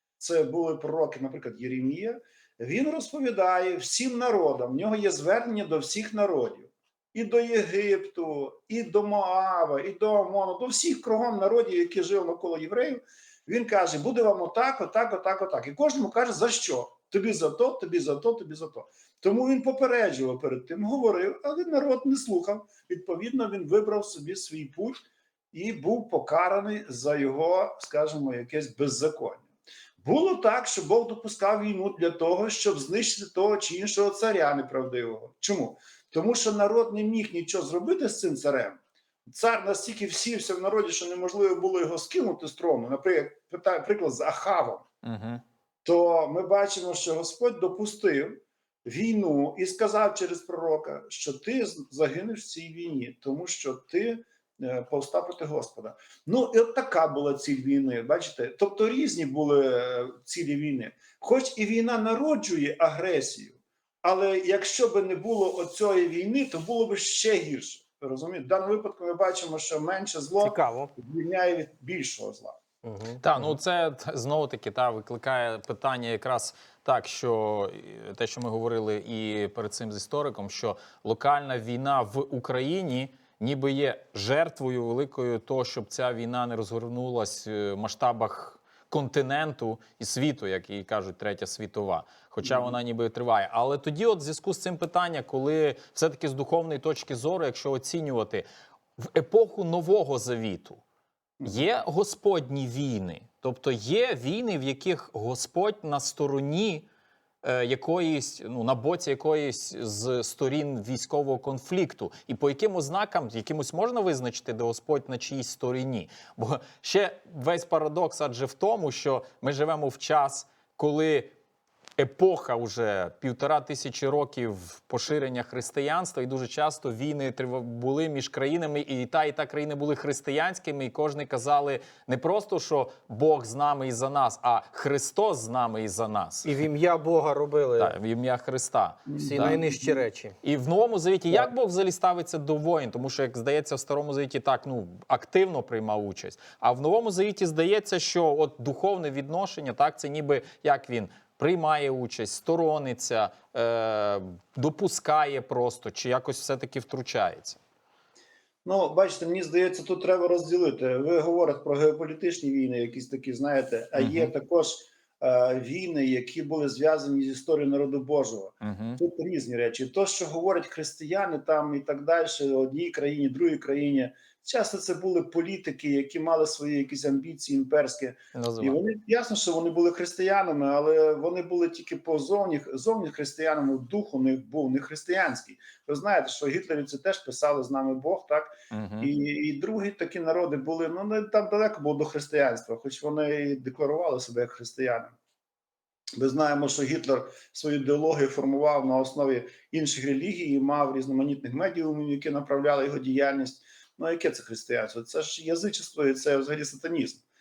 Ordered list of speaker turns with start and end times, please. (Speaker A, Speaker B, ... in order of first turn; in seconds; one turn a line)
Speaker A: 0.2-29.5
Speaker A: 30.0-44.9
Speaker B: 45.0-45.4
Speaker A: 45.9-72.6
Speaker C: 70.4-70.9
Speaker C: 72.8-73.5
Speaker B: 73.2-98.5
Speaker A: 92.4-92.8
Speaker B: 99.0-100.8
Speaker A: 101.4-101.7
Speaker B: 101.5-106.9
Speaker B: 107.4-121.3
Speaker B: 122.0-136.5
Speaker C: 136.4-137.9
Speaker B: 137.8-139.7
Speaker A: 139.1-140.0
Speaker C: 139.2-140.4
Speaker B: 140.4-157.6
Speaker A: 158.7-195.2
Speaker B: 164.0-164.3
Speaker B: 168.6-169.0
Speaker B: 178.3-178.8
Speaker B: 188.7-189.1
Speaker A: 196.2-207.2